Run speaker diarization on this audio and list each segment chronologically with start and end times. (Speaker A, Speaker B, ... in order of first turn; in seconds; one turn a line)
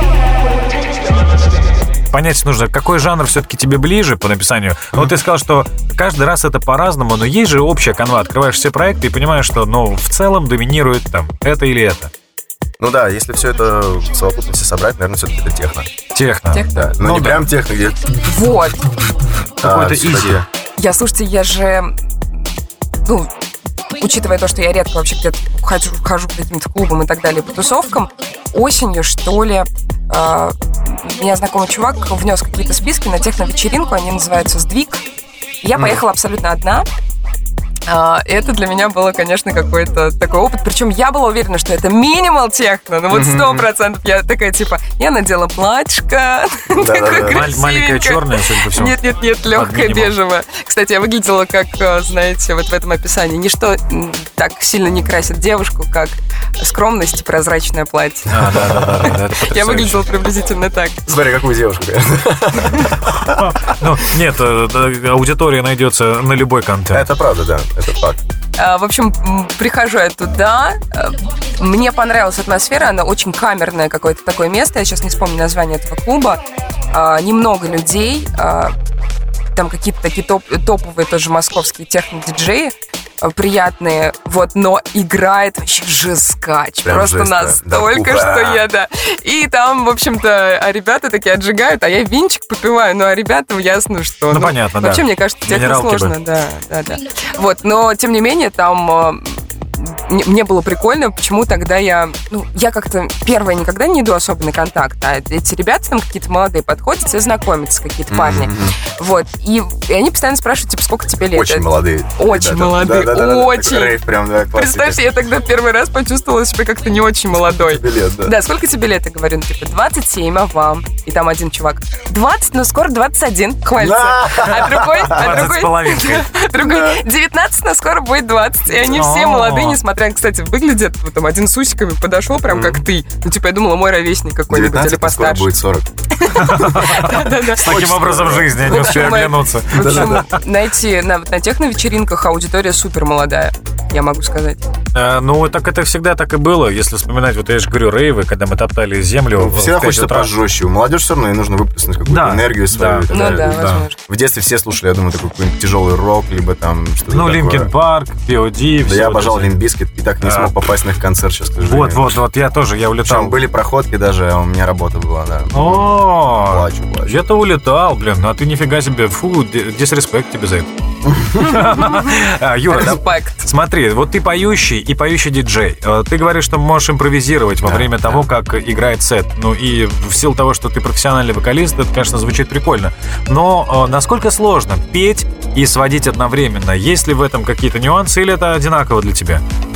Speaker A: 2.1-12.1
Speaker B: 12.8-15.9
Speaker A: 16.1-17.5
Speaker C: 16.5-16.9
Speaker B: 16.7-18.2
Speaker C: 18.2-18.9
Speaker A: 19.6-20.4
Speaker B: 19.6-20.5
Speaker C: 20.8-22.0
Speaker C: 23.0-23.3
Speaker C: 24.0-35.0
Speaker C: 35.6-36.9
Speaker B: 35.8-36.0
Speaker C: 37.9-61.0
Speaker B: 43.1-43.7
Speaker B: 46.7-47.5
Speaker A: 47.2-50.1
Speaker A: 58.3-60.0
Speaker B: 58.6-59.1
Speaker B: 61.1-63.7
Speaker A: 63.3-67.1
Speaker B: 66.9-68.2
Speaker C: 68.6-78.8
Speaker C: 79.5-114.0
Speaker B: 86.8-88.7
Speaker A: 94.3-96.2
Speaker B: 108.1-108.8
Speaker B: 111.3-115.1
Speaker C: 114.5-135.5
Speaker B: 117.5-118.4
Speaker B: 123.8-125.5
Speaker A: 125.0-126.4
Speaker B: 126.7-127.0
Speaker A: 128.8-129.8
Speaker B: 132.5-132.8
Speaker B: 134.5-139.2
Speaker C: 136.2-137.9
Speaker A: 136.3-140.4
Speaker C: 138.6-144.7
Speaker B: 139.7-140.3
Speaker A: 144.9-150.3
Speaker B: 149.4-157.7
Speaker A: 152.1-153.8
Speaker C: 153.1-154.0
Speaker A: 157.1-159.6
Speaker B: 158.8-162.2
Speaker A: 160.2-160.5
Speaker A: 161.6-163.4
Speaker B: 163.1-167.2
Speaker A: 165.5-170.7
Speaker B: 171.1-171.5
Speaker A: 171.4-189.4
Speaker C: 171.4-173.5
Speaker B: 177.6-178.3